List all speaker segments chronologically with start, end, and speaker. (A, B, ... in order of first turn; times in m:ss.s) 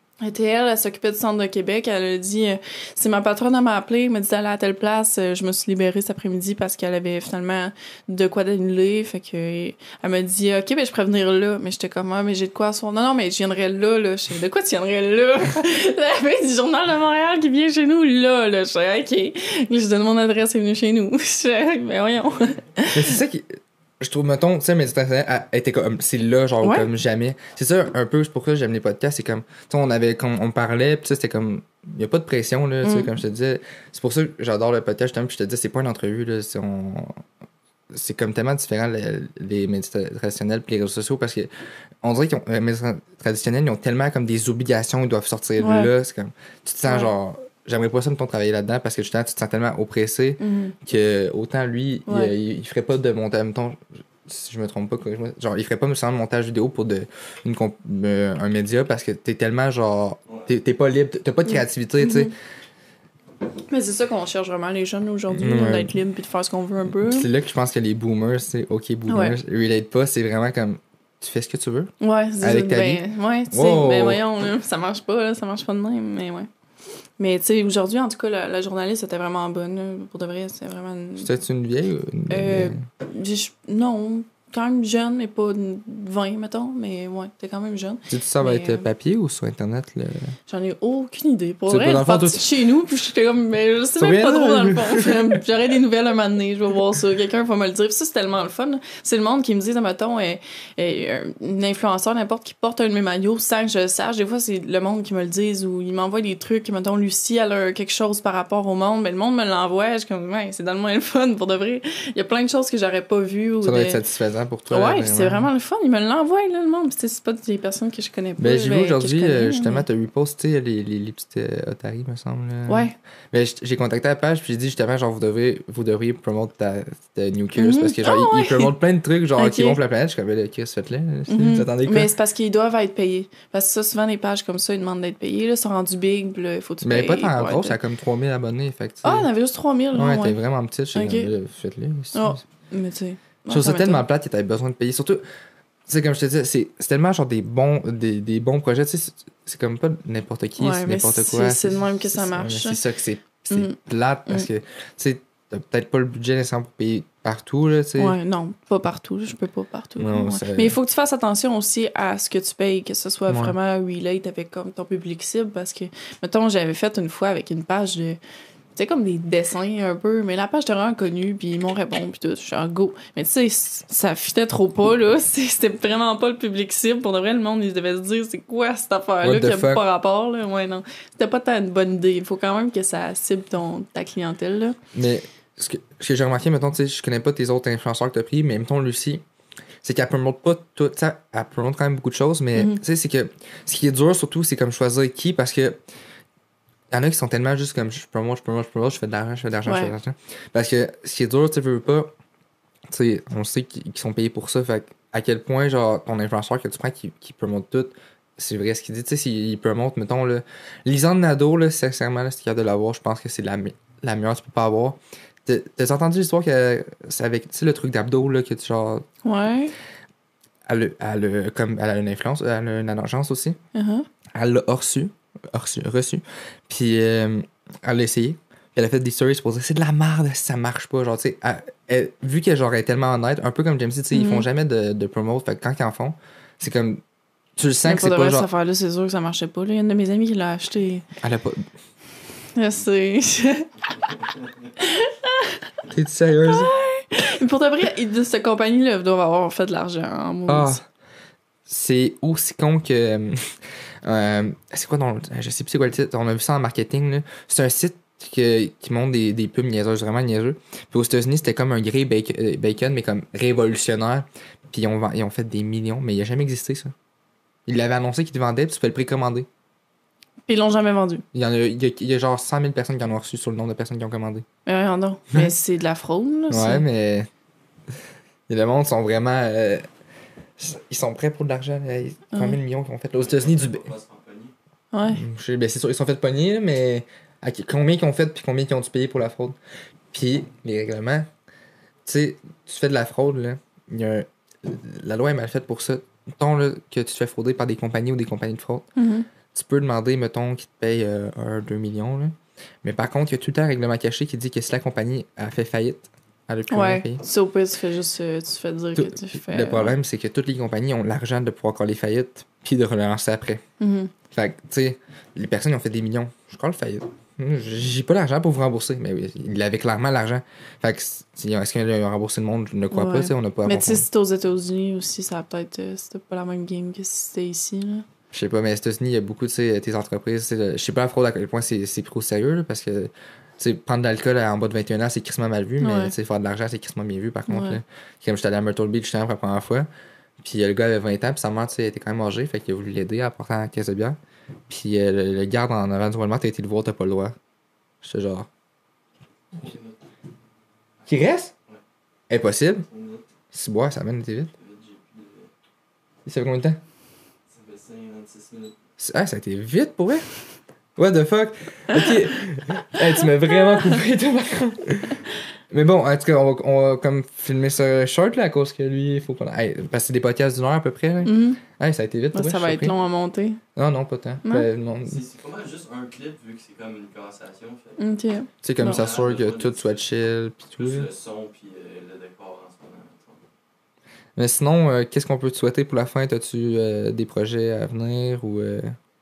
0:00.2-0:23.0 A
0:22.9-0:37.2 B
0:26.6-0:26.9 A
0:32.8-0:33.1 A
0:37.9-0:41.5 B
0:42.0-1:02.3 B
0:45.6-0:45.9 A
0:46.9-0:47.1 A
0:50.4-0:50.8 A
0:52.1-0:52.3 A
1:01.5-1:02.3 A
1:03.7-1:07.3 A
1:05.3-1:05.9 B
1:06.9-1:14.2 B
1:09.1-1:09.4 A
1:12.0-1:16.5 A
1:17.2-1:21.3 A
1:21.2-1:22.8 B
1:22.3-1:28.9 A
1:28.1-1:30.4 B
1:30.5-1:54.0 A
1:31.7-1:32.4 B
1:34.0-1:35.2 B
1:53.6-1:55.5 B
1:54.7-1:59.8 A
1:58.4-2:12.1 B
2:02.7-2:02.9 A
2:07.6-2:08.7 A
2:09.4-2:09.8 A
2:11.3-2:17.8 A
2:16.8-2:19.3 B
2:19.0-2:20.4 A
2:19.9-2:22.4 B
2:20.9-2:21.3 A
2:22.1-2:24.0 A
2:23.5-2:25.2 B
2:25.9-2:38.2 B
2:30.6-2:32.8 A
2:33.5-2:33.8 A
2:38.0-2:48.2 A
2:40.0-2:40.8 B
2:43.3-2:43.6 B
2:48.8-3:04.8 A
2:59.2-2:59.8 B
3:04.9-3:09.2 B
3:09.8-3:15.8 B
3:12.6-3:12.8 A
3:16.9-3:22.1 B
3:19.6-3:19.9 A
3:22.9-3:39.0 B
3:39.2-3:39.7 A
3:40.7-3:43.6 B
3:43.7-3:44.1 A
3:44.3-3:57.0 B
3:54.1-3:54.5 A
3:57.6-3:58.5 B
3:57.9-4:01.0 A
4:01.2-4:01.7 B
4:02.6-4:03.7 A
4:04.8-4:05.6 A
4:05.9-4:06.7 B
4:06.5-4:10.8 A
4:10.5-4:10.8 B
4:11.7-4:26.9 B
4:27.7-4:29.5 B
4:30.5-4:31.2 A
4:31.3-4:34.5 B
4:34.7-4:36.8 A
4:36.5-4:37.3 B
4:38.5-4:39.9 B
4:40.6-4:43.8 B
4:42.3-4:42.6 A
4:43.2-4:44.5 C
4:44.9-4:45.2 A
4:45.1-4:49.6 B
4:50.1-4:51.3 B
4:52.0-4:58.9 B
4:59.0-4:59.3 A
4:59.5-5:07.2 B
5:06.7-5:10.0 A
5:09.0-5:13.6 B
5:13.8-5:14.1 A
5:14.3-5:24.1 B
5:22.9-5:28.0 A
5:28.3-5:39.9 B
5:35.8-5:36.1 A
5:37.5-5:37.8 A
5:40.4-5:44.2 B
5:44.7-5:47.4 B
5:48.0-5:48.5 B
5:49.5-5:50.0 C
5:51.0-5:51.8 C
5:51.1-5:51.5 B
5:52.3-5:52.9 B
5:52.9-5:53.2 C
5:53.5-5:54.5 B
5:54.6-5:55.5 C
5:56.3-5:56.8 B
5:57.5-5:58.8 C
5:59.0-6:00.3 B
6:01.0-6:12.9 B
6:11.2-6:11.6 A
6:12.3-6:13.6 A
6:13.8-6:15.2 B
6:15.0-6:18.0 C
6:18.0-6:19.0 A
6:18.6-6:21.1 B
6:18.8-6:20.0 C
6:20.8-6:23.4 C
6:24.4-6:29.0 B